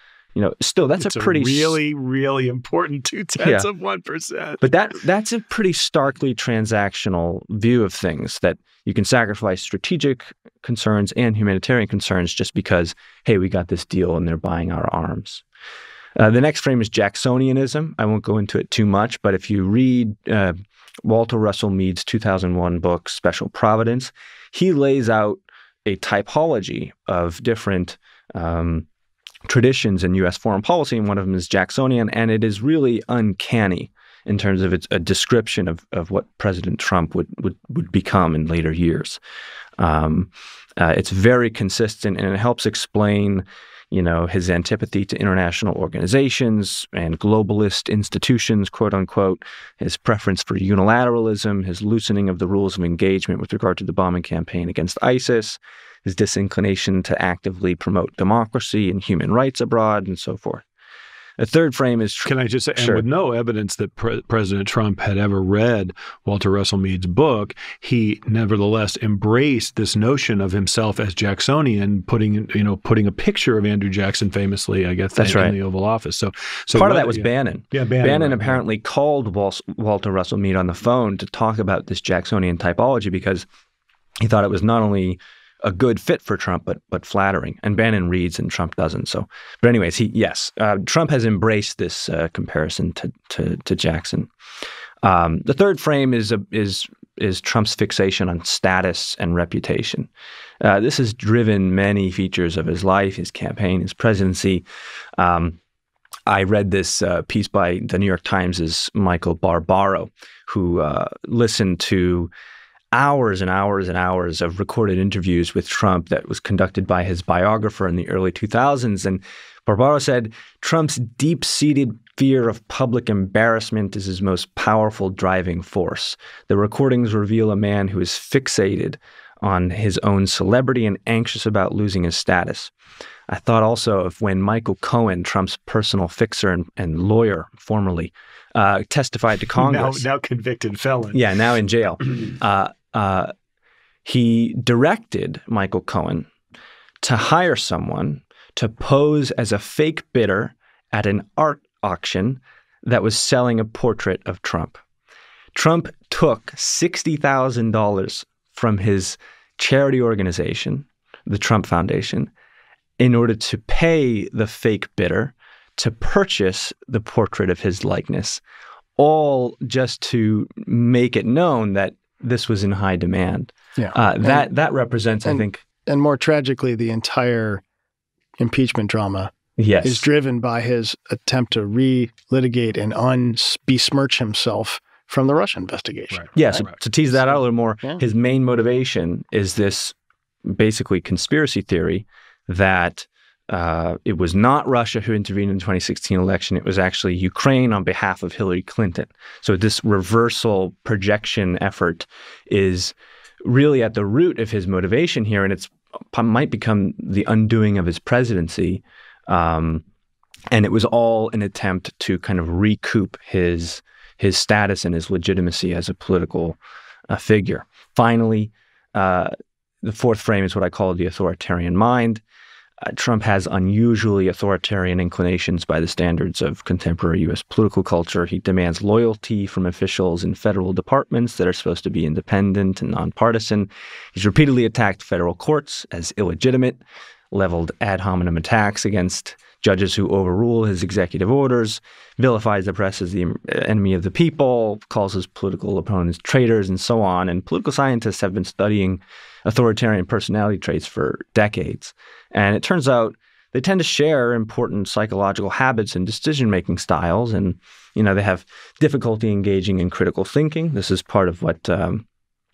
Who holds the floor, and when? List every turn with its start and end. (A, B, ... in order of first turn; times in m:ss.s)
0:00.3-0:01.8 A
0:01.0-0:04.6 B
0:03.4-0:03.7 A
0:04.6-0:15.4 A
0:16.2-0:28.9 A
0:29.5-0:39.2 A
0:39.8-1:00.6 A
1:01.4-1:03.0 A
1:02.2-1:18.6 B
1:15.2-1:15.6 A
1:16.7-1:23.5 A
1:24.2-1:34.3 A
1:35.0-1:40.1 A
1:40.6-1:44.6 A
1:45.2-1:45.6 A
1:46.3-1:52.3 A
1:52.9-2:12.7 A
2:13.3-2:20.0 A
2:19.6-2:21.2 B
2:21.1-2:23.3 A
2:24.0-2:26.3 A
2:27.0-2:34.8 A
2:35.5-2:42.3 A
2:43.0-2:48.4 A
2:49.0-2:55.6 A
2:53.8-2:54.5 C
2:55.2-2:57.6 C
2:58.4-3:06.6 C
2:59.6-3:00.0 A
3:06.1-3:06.6 B
3:06.3-3:29.8 A
3:07.2-3:08.0 C
3:30.5-3:36.6 A
3:37.1-3:39.3 A
3:39.8-3:42.2 A
3:42.8-3:56.8 A
3:57.3-4:22.0 A